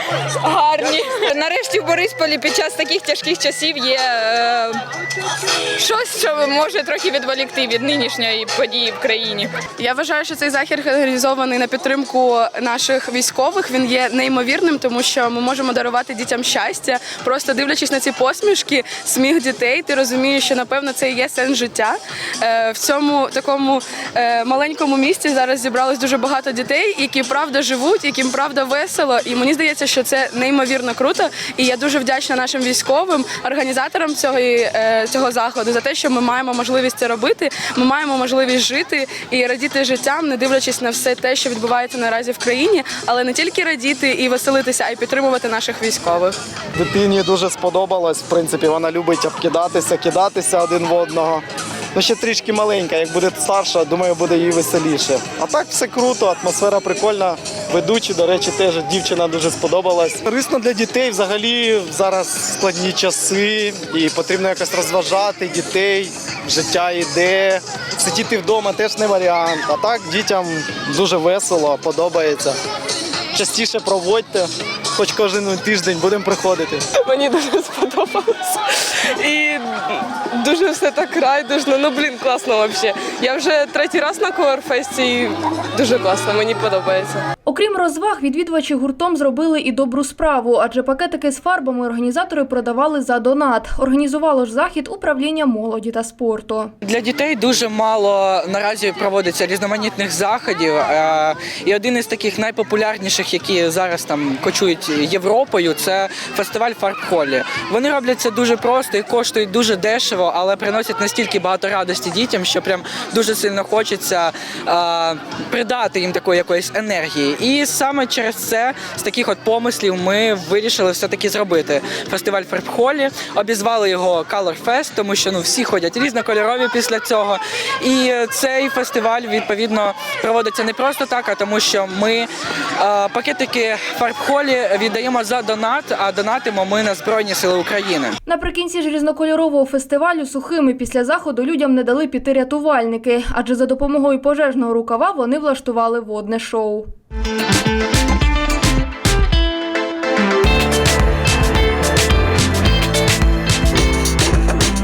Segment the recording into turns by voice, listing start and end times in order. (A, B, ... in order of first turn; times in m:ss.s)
0:00.4-0:04.8 A
0:05.8-0:09.6 A
0:09.8-0:46.4 B
0:46.8-1:12.6 C
1:13.3-1:16.9 C
1:16.9-1:27.2 D
1:27.5-1:36.7 E
1:36.8-2:18.2 F
2:18.3-2:26.9 E